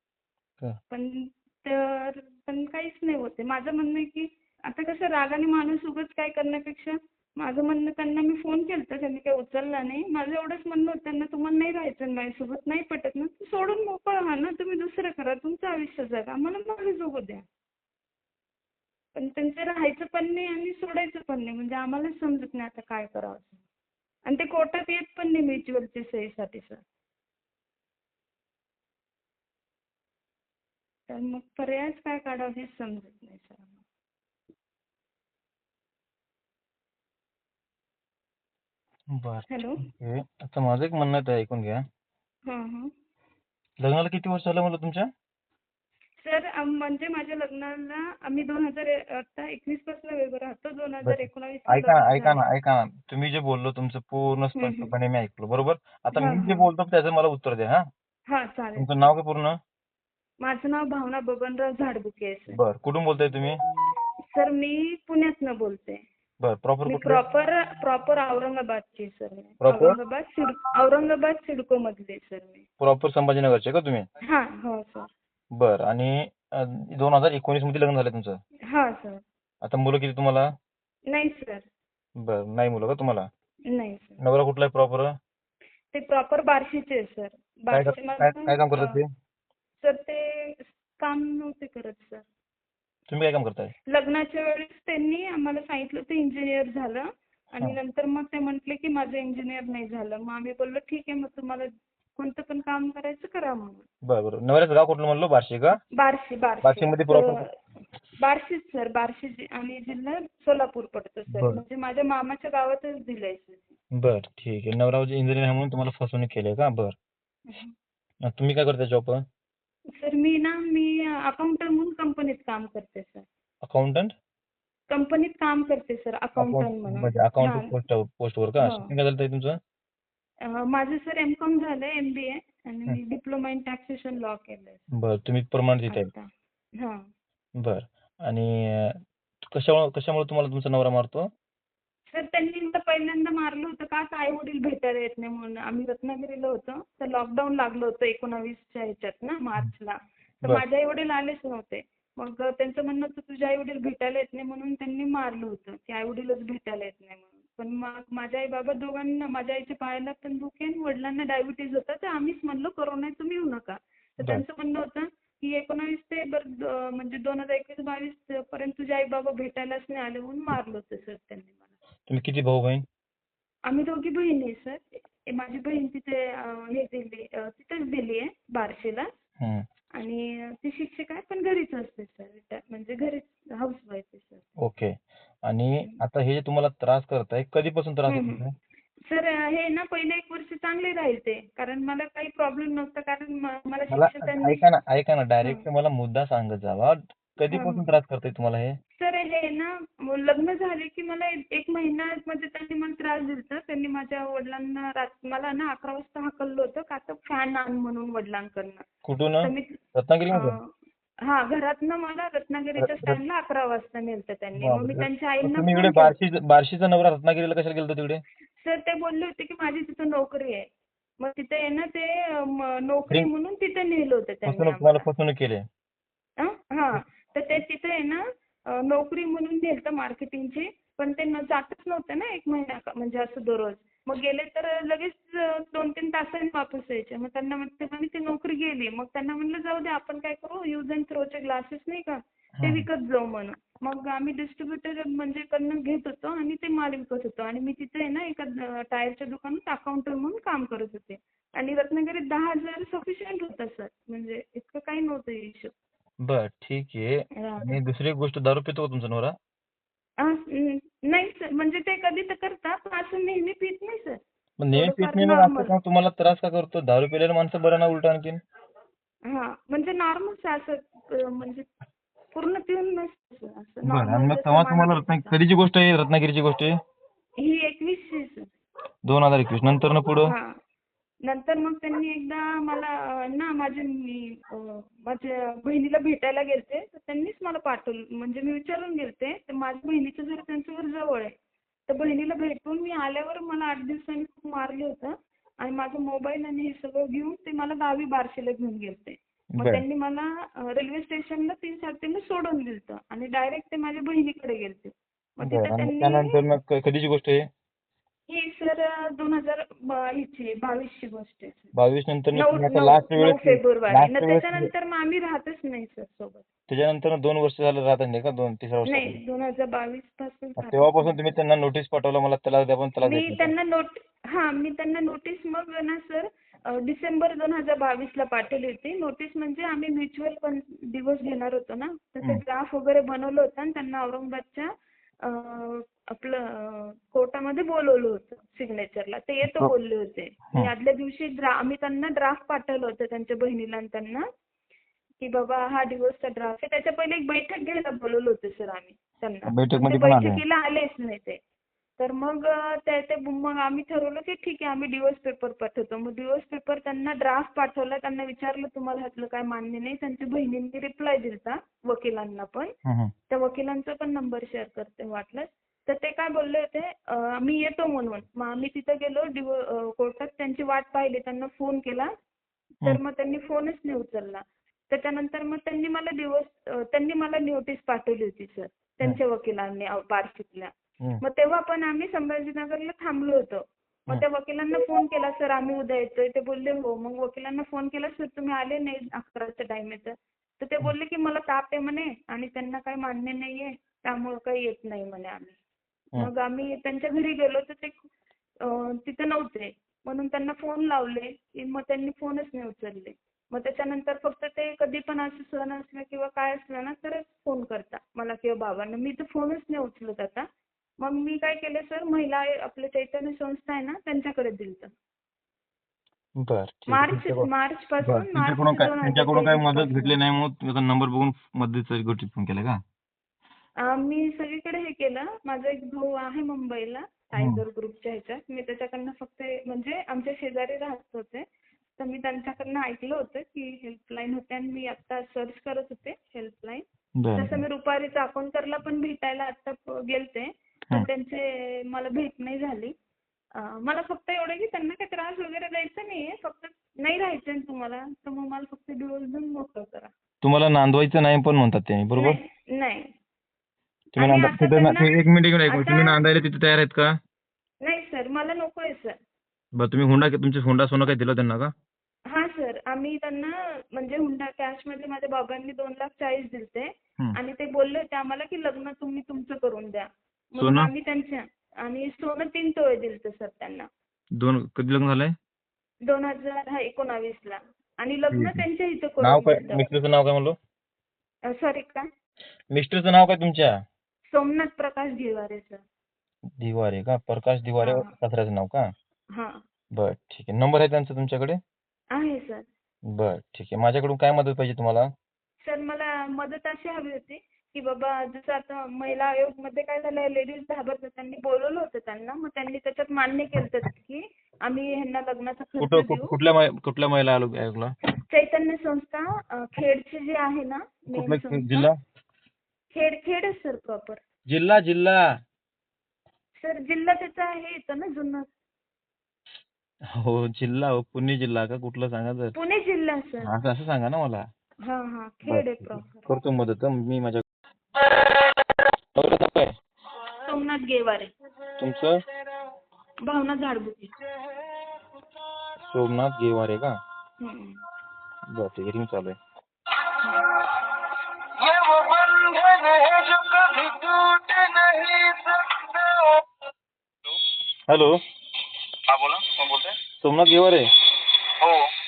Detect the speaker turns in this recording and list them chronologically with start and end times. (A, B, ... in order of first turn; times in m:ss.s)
0:00.9-0:17.4 A
0:19.2-0:23.6 A
0:24.3-0:26.8 A
0:31.1-0:33.8 A
0:39.1-0:41.8 B
0:39.5-0:39.8 A
0:42.5-0:42.9 A
0:43.8-0:45.1 B
0:46.2-0:52.4 A
0:51.0-0:57.9 B
0:54.6-0:54.9 A
0:56.2-0:56.7 A
0:58.3-0:58.9 A
0:58.8-0:59.6 B
1:00.4-1:02.6 A
1:02.5-1:03.6 B
1:04.3-1:06.0 A
1:06.4-1:07.2 B
1:06.9-1:12.6 A
1:09.6-1:10.0 B
1:12.8-1:14.0 B
1:14.3-1:15.1 A
1:15.5-1:18.4 B
1:18.7-1:19.2 A
1:19.6-1:20.5 B
1:21.1-1:21.7 A
1:22.2-1:23.3 B
1:23.7-1:24.2 A
1:24.2-1:25.1 B
1:25.9-1:29.0 A
1:27.7-1:29.1 B
1:29.8-1:32.2 A
1:33.1-1:33.7 B
1:33.9-1:43.9 A
1:44.0-1:45.8 B
1:46.0-1:47.5 A
1:46.6-1:47.4 B
1:48.2-1:53.6 A
1:51.3-1:51.6 B
1:53.9-1:57.0 B
1:57.5-1:57.7 A
1:58.2-1:59.2 B
1:59.9-2:03.3 A
2:03.6-2:04.1 B
2:04.9-2:07.8 A
2:06.4-2:09.6 B
2:08.6-2:08.9 A
2:10.4-2:14.8 A
2:14.9-2:16.1 B
2:15.9-2:17.0 A
2:17.6-2:21.3 B
2:22.1-2:51.7 A
2:52.1-2:52.8 B
2:53.7-2:59.1 A
2:59.4-2:59.6 B
3:00.0-3:04.5 A
3:04.6-3:08.5 B
3:08.1-3:08.4 A
3:09.0-3:14.6 A
3:13.9-3:18.8 B
3:17.5-3:17.9 A
3:19.0-3:28.9 A
3:29.0-3:30.6 B
3:29.4-3:29.8 A
3:30.3-3:30.6 A
3:31.2-3:36.2 A
3:32.8-3:33.2 B
3:34.6-3:38.2 B
3:38.6-3:40.7 A
3:41.2-3:45.0 A
3:44.5-3:45.6 B
3:46.4-4:15.7 A
4:02.6-4:02.9 B
4:16.2-4:19.4 B
4:17.4-4:17.8 A
4:20.2-4:24.2 A
4:24.6-4:28.4 B
4:24.7-4:25.7 A
4:29.3-4:31.7 A
4:32.4-4:35.4 A
4:33.9-4:36.7 B
4:37.4-4:38.5 A
4:39.0-4:40.3 B
4:40.2-4:40.5 A
4:41.3-4:51.3 A
4:51.9-5:06.4 A
4:59.6-4:59.8 B
5:05.4-5:07.5 B
5:08.3-5:11.7 A
5:11.7-5:14.7 B
5:12.3-5:16.5 A
5:16.7-5:19.2 B
5:18.8-5:21.1 A
5:20.6-5:23.5 B
5:23.0-5:34.7 A
5:35.2-5:44.2 A
5:39.4-5:39.7 B
5:45.2-5:51.4 A
5:49.5-5:50.4 B
5:52.0-6:02.7 A
6:02.8-6:03.1 B
6:03.3-6:12.1 A
6:12.8-6:20.7 A
6:21.2-6:35.6 A
6:36.2-6:38.1 A
6:38.6-6:50.5 A
6:51.0-6:54.9 A
6:56.4-6:57.5 B
6:56.9-7:00.2 A
6:58.0-7:02.8 B
7:03.8-7:11.4 A
7:12.0-7:22.9 A
7:17.2-7:17.6 B
7:23.6-7:30.1 A
7:30.4-7:32.4 B
7:32.2-7:33.1 A
7:34.2-7:36.2 A
7:34.2-7:37.2 B
7:37.8-7:39.2 A
7:39.8-7:41.7 B
7:42.3-7:53.9 A
7:50.6-7:50.9 B
7:54.4-7:55.4 B
7:56.0-7:59.9 A
7:58.3-7:58.6 B
7:59.2-8:00.6 B
8:01.5-8:02.1 A
8:02.7-8:03.8 B
8:04.3-8:05.8 A
8:06.6-8:08.9 B
8:07.8-8:08.1 A
8:09.3-8:09.6 A
8:09.9-8:11.6 B
8:12.1-8:12.7 A
8:13.1-8:15.1 B
8:15.6-8:26.4 A
8:25.8-8:27.9 B
8:28.3-8:31.9 A
8:31.1-8:32.0 B
8:32.9-8:34.2 A
8:34.5-8:35.3 B
8:36.6-8:38.5 A
8:40.0-8:42.6 B
8:42.6-8:43.5 A
8:43.4-8:44.5 B
8:44.8-8:46.3 A
8:45.5-8:47.4 B
8:49.2-8:49.8 B
8:50.4-8:51.3 A
8:51.8-8:52.2 B
8:53.2-8:54.1 A
8:55.9-8:57.0 B
8:57.4-8:57.8 A
8:58.5-8:59.4 B
9:00.2-9:00.5 A
9:01.6-9:06.4 C
9:07.9-9:08.2 B
9:09.1-9:10.0 C
9:10.2-9:10.9 B
9:11.6-9:11.9 C